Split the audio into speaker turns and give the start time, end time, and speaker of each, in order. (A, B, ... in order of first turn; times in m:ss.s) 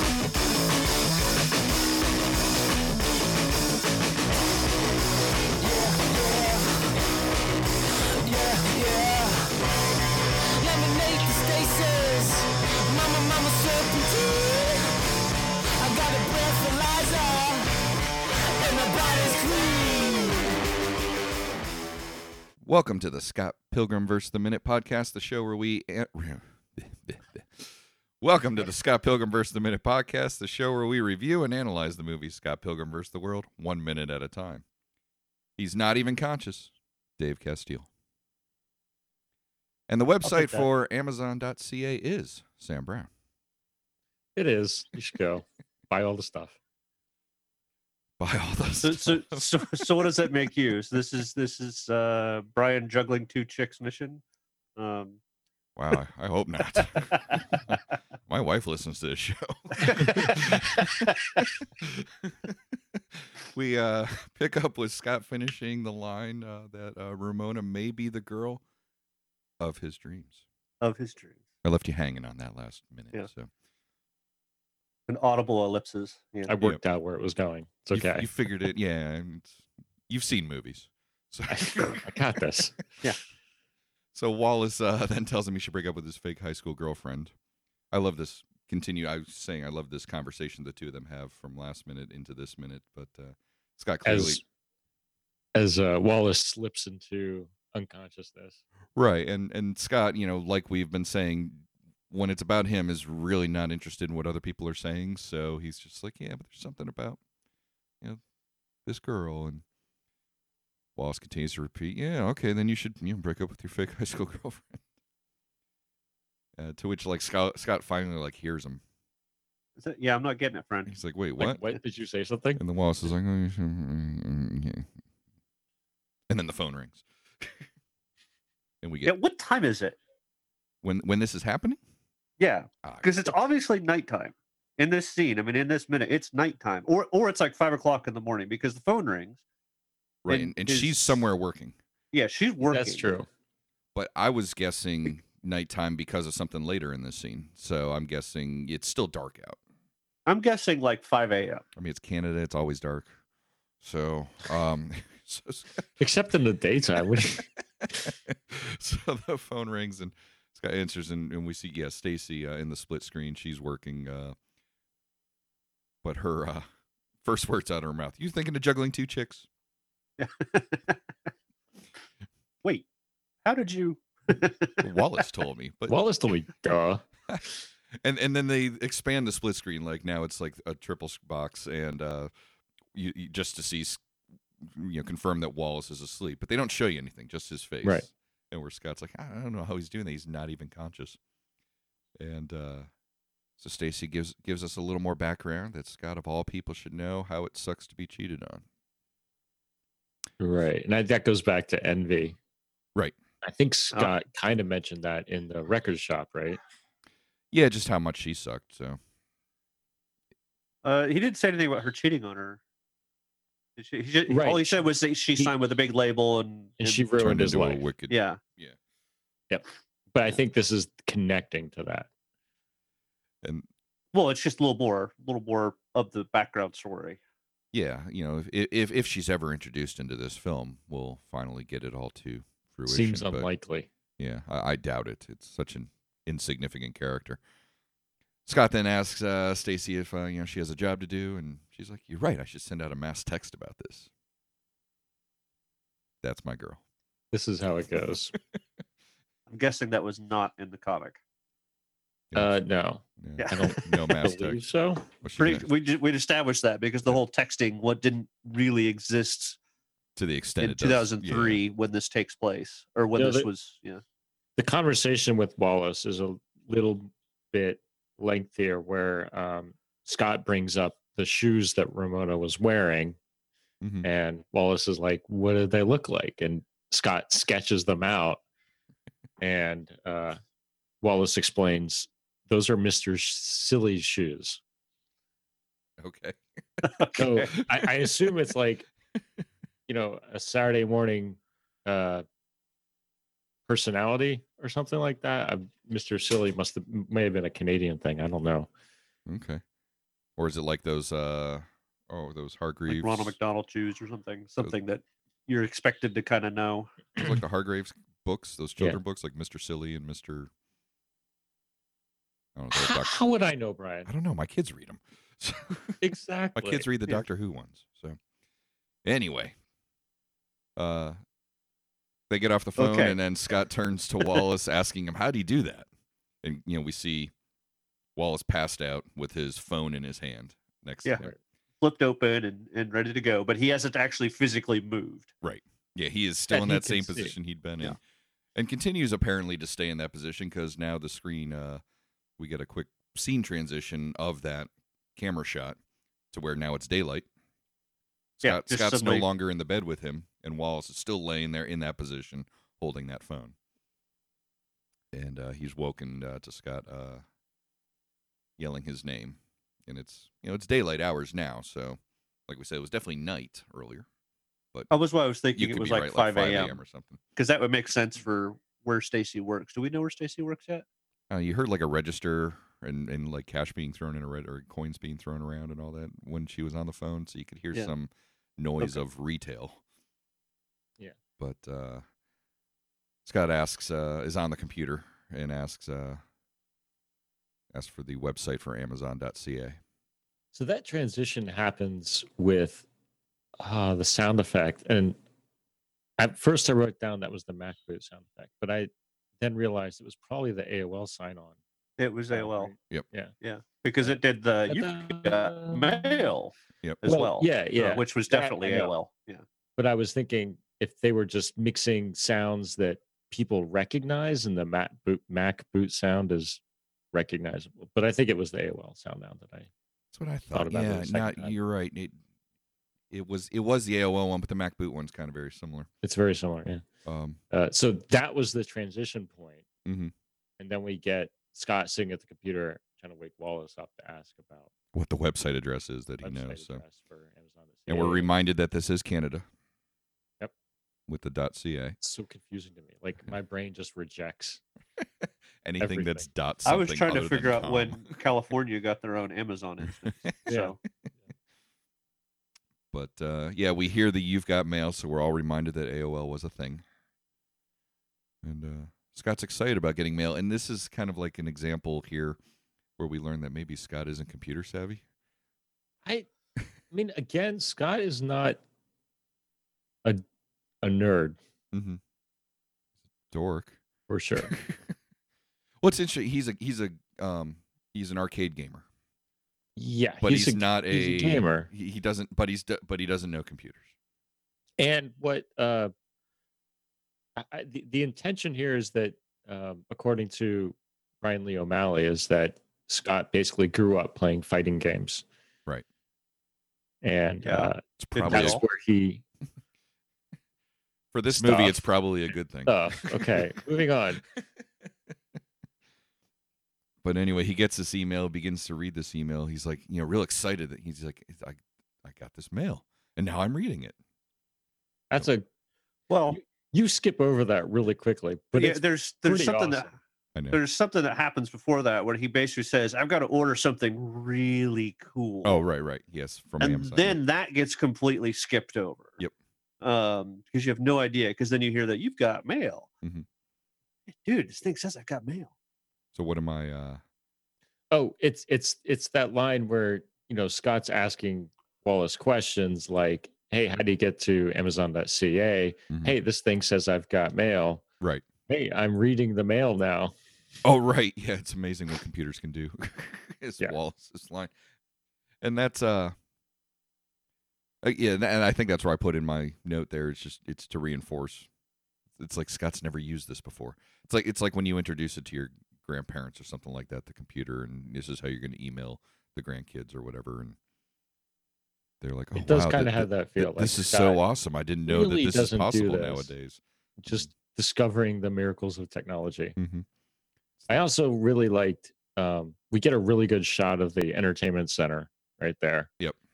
0:05.6-0:07.0 A
0:08.2-0:09.6 A
0:10.6-0:15.0 A
0:15.8-0:17.8 A
0:18.5-0:20.6 A
0:22.6-0:34.6 B
0:35.6-0:37.9 B
0:39.9-0:43.1 B
0:40.3-0:40.6 C
0:44.4-0:46.6 D
0:48.2-0:49.4 B
0:48.8-0:54.2 C
0:54.8-0:55.2 C
0:55.8-0:57.7 B
0:58.3-1:02.5 B
0:59.8-1:01.2 C
1:03.4-1:08.6 B
1:09.6-1:10.4 B
1:10.8-1:11.4 C
1:11.6-1:13.5 B
1:15.1-1:16.5 C
1:16.5-1:18.3 D
1:17.9-1:19.5 B
1:20.1-1:22.0 B
1:21.5-1:22.7 D
1:24.1-1:27.3 B
1:27.9-1:34.4 B
1:34.0-1:34.4 D
1:35.6-1:38.6 D
1:39.0-1:47.2 B
1:48.8-1:49.6 B
1:51.0-1:54.8 B
1:56.6-1:58.8 B
1:59.8-2:01.0 C
2:00.9-2:01.6 B
2:01.4-2:02.6 D
2:02.6-2:04.8 B
2:06.3-2:07.5 B
2:08.8-2:09.1 B
2:09.0-2:10.0 C
2:10.8-2:11.8 B
2:12.4-2:19.4 C
2:12.8-2:13.3 B
2:20.2-2:21.8 B
2:20.3-2:21.2 C
2:22.1-2:23.1 C
2:22.7-2:23.3 D
2:23.9-2:29.6 B
2:30.2-2:31.6 C
2:31.8-2:33.2 B
2:33.8-2:35.8 B
2:36.0-2:37.4 D
2:38.0-2:44.4 B
2:46.0-2:46.6 B
2:47.2-2:49.5 B
2:50.2-2:51.0 C
2:53.4-2:54.8 C
2:54.8-2:56.0 B
2:55.9-2:57.0 D
2:58.0-3:02.3 B
3:02.9-3:04.0 B
3:04.6-3:11.2 B
3:12.2-3:12.9 B
3:13.6-3:18.6 B
3:20.4-3:22.4 D
3:23.4-3:26.6 D
3:27.5-3:29.0 B
3:30.8-3:32.6 C
3:33.8-3:37.2 C
3:34.3-3:35.5 D
3:36.8-3:37.8 D
3:37.2-3:38.8 B
3:38.1-3:38.4 C
3:39.5-3:42.1 D
3:44.1-3:47.2 C
3:47.7-3:53.5 B
3:52.9-3:53.9 D
3:54.2-3:57.4 B
3:58.4-4:04.1 B
4:06.2-4:06.8 B
4:07.3-4:08.3 D
4:09.5-4:11.2 C
4:12.3-4:15.1 D
4:13.2-4:14.6 B
4:13.4-4:14.2 C
4:15.2-4:15.6 B
4:15.4-4:19.6 C
4:20.2-4:21.6 B
4:20.6-4:24.0 C
4:23.1-4:23.5 D
4:24.6-4:33.2 D
4:33.8-4:34.1 B
4:34.0-4:38.4 D
4:39.4-4:40.4 D
4:41.0-4:44.6 D
4:46.0-4:48.0 B
4:47.2-4:48.8 D
4:49.9-4:52.2 D
4:53.7-4:58.7 D
4:59.3-4:59.6 B
5:00.4-5:03.4 B
5:02.9-5:07.0 C
5:07.2-5:10.5 B
5:12.6-5:13.1 B
5:12.7-5:14.1 D
5:14.0-5:16.0 B
5:16.0-5:16.8 D
5:16.6-5:18.2 B
5:19.0-5:19.5 B
5:20.8-5:21.2 B
5:22.3-5:25.9 B
5:22.8-5:23.2 C
5:26.4-5:27.3 B
5:28.2-5:31.3 B
5:31.0-5:31.3 C
5:31.8-5:35.3 C
5:35.4-5:38.0 B
5:36.5-5:37.3 D
5:38.5-5:41.8 B
5:42.4-5:45.8 B
5:46.3-5:47.3 B
5:48.4-5:53.5 B
5:48.4-5:49.2 C
5:55.1-5:57.2 B
5:58.6-6:04.0 B
6:04.9-6:06.8 C
6:05.5-6:07.2 B
6:07.4-6:10.8 C
6:11.3-6:19.8 B
6:21.4-6:22.0 B
6:23.2-6:26.2 B
6:27.7-6:29.8 B
6:30.5-6:32.8 D
6:33.6-6:35.2 D
6:36.2-6:41.6 D
6:42.0-6:42.7 C
6:42.3-6:43.3 D
6:43.4-6:49.4 C
6:44.7-6:46.3 D
6:47.0-6:48.9 D
6:49.8-6:56.6 D
6:57.1-6:59.7 D
7:00.1-7:02.2 B
7:00.5-7:01.6 D
7:03.1-7:05.9 B
7:06.0-7:06.8 D
7:07.0-7:07.4 B
7:07.5-7:09.6 D
7:09.8-7:10.1 B
7:10.6-7:14.7 D
7:14.9-7:16.8 B
7:16.2-7:18.3 D
7:17.9-7:19.4 B
7:21.1-7:22.0 B
7:22.0-7:24.6 D
7:25.6-7:28.0 B
7:25.8-7:26.3 D
7:26.6-7:30.8 C
7:30.5-7:30.7 D
7:32.9-7:36.8 B
7:38.4-7:42.4 B
7:43.0-7:45.0 B
7:46.9-7:48.6 D
7:50.8-7:51.4 D
7:51.7-7:52.0 B
7:53.3-7:53.8 B
7:54.1-7:54.5 D
7:54.4-7:54.9 B
7:55.8-7:58.8 B
7:59.8-8:01.7 D
8:00.2-8:03.8 B
8:04.8-8:05.9 D
8:07.4-8:15.2 D
8:17.0-8:19.2 D
8:17.4-8:18.6 C
8:18.0-8:18.6 B
8:21.1-8:23.1 B
8:21.4-8:21.8 D
8:22.6-8:24.2 D
8:27.0-8:34.0 B
8:35.1-8:35.5 D
8:36.1-8:36.4 C
8:36.3-8:39.9 D
8:38.5-8:39.9 C
8:40.3-8:40.6 B
8:40.5-8:45.6 C
8:45.4-8:47.2 B
8:46.6-8:49.2 C
8:49.8-8:52.9 C
8:54.2-8:55.5 C
8:56.1-8:57.0 B
8:57.9-9:07.8 D
9:05.9-9:06.2 B
9:08.5-9:10.1 D
9:10.6-9:14.5 B
9:15.4-9:16.1 B
9:17.8-9:21.5 B
9:22.2-9:30.6 B
9:32.0-9:37.3 B
9:32.3-9:34.2 D
9:34.9-9:36.3 D
9:37.0-9:39.6 D
9:39.6-9:39.8 B
9:40.7-9:45.9 D